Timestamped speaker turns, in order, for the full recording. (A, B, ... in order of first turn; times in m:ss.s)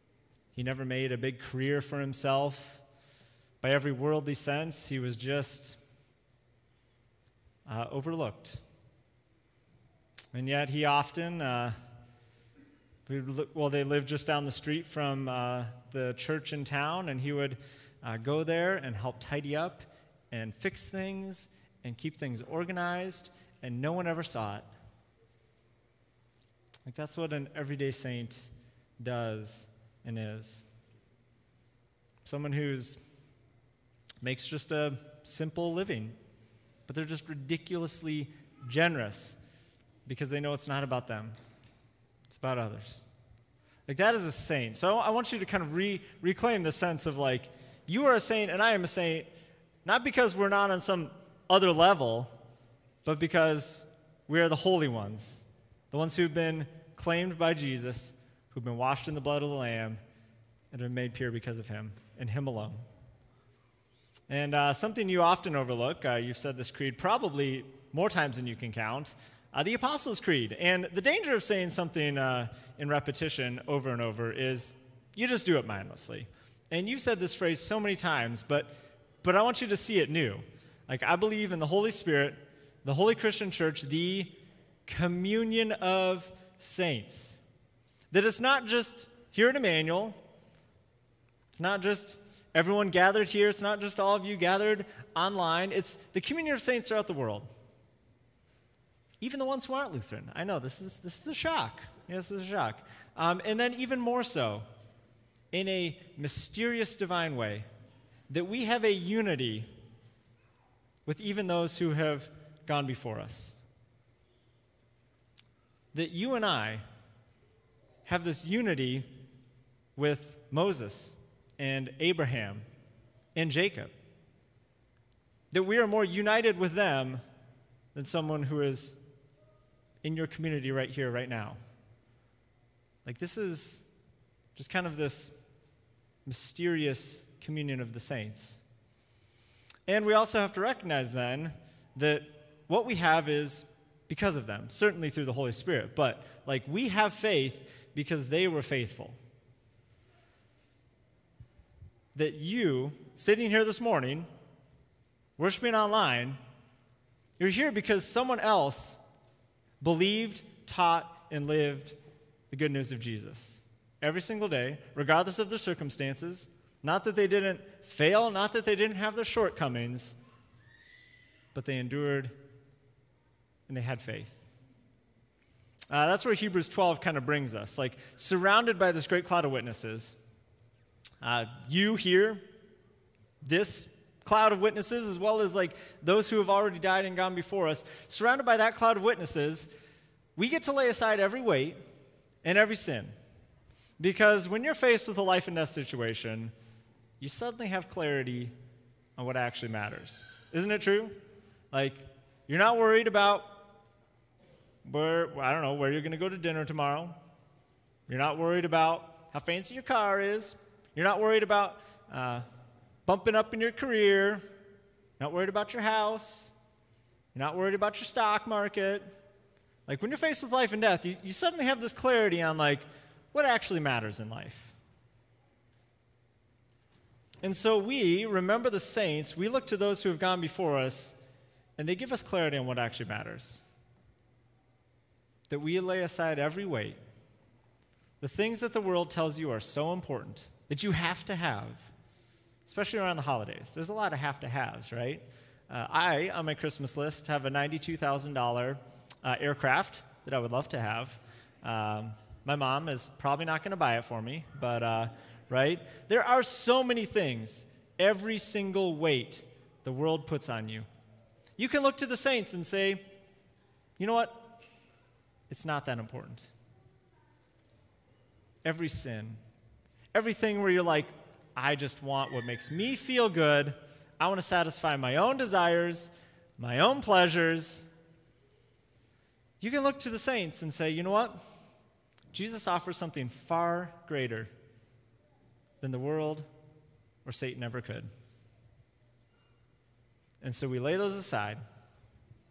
0:00.5-0:02.8 A
0:03.6-0:05.8 A
0:07.7-0:08.6 A
0:10.3-0:11.8 A
0:13.1-0:24.7 A
0:26.9-0:30.6 A
0:32.2-0:33.0 A
0:34.2-0:36.2 A
0:36.9-0:39.4 A
0:40.1-0:41.4 A
0:42.3-0:43.1 A
0:43.9-0:49.3 A
0:49.8-0:52.4 A
0:53.0-1:00.0 A
1:00.7-1:02.8 A
1:04.3-1:27.4 A
1:28.1-1:30.2 A
1:31.5-1:37.5 A
1:39.2-1:44.7 A
1:45.5-1:47.7 A
1:48.3-1:49.7 A
1:51.1-1:53.6 A
1:55.9-1:56.8 A
1:58.1-1:59.1 A
2:00.0-2:02.7 A
2:03.4-2:04.0 A
2:05.5-2:07.2 A
2:08.0-2:09.0 A
2:10.0-2:11.6 A
2:13.0-2:13.9 A
2:14.6-2:15.4 A
2:16.3-2:18.6 A
2:19.9-2:29.2 A
2:32.2-2:34.3 A
2:35.4-2:36.4 A
2:37.4-2:39.0 A
2:39.8-2:42.0 A
2:42.5-2:50.2 A
2:51.5-2:52.4 A
2:53.7-2:54.4 A
2:55.9-3:00.2 A
3:01.2-3:02.4 A
3:03.4-3:09.7 A
3:10.4-3:11.8 A
3:12.4-3:13.1 A
3:14.0-3:16.5 A
3:17.2-3:18.5 A
3:19.2-3:21.2 A
3:21.7-3:23.7 A
3:24.8-3:27.2 A
3:28.1-3:32.5 A
3:33.1-3:34.4 A
3:35.2-3:36.6 A
3:37.3-3:39.2 A
3:39.9-3:44.8 A
3:47.4-3:51.2 A
3:51.8-3:53.7 A
3:55.5-3:57.0 A
3:58.2-4:01.9 A
4:02.7-4:20.9 A
4:21.6-4:23.1 A
4:24.0-4:24.6 A
4:25.5-4:26.5 A
4:28.6-4:29.4 A
4:30.1-4:37.9 A
4:39.6-4:41.4 A
4:42.3-4:44.5 A
4:45.8-4:46.5 A
4:47.2-4:48.1 A
4:50.4-4:51.6 A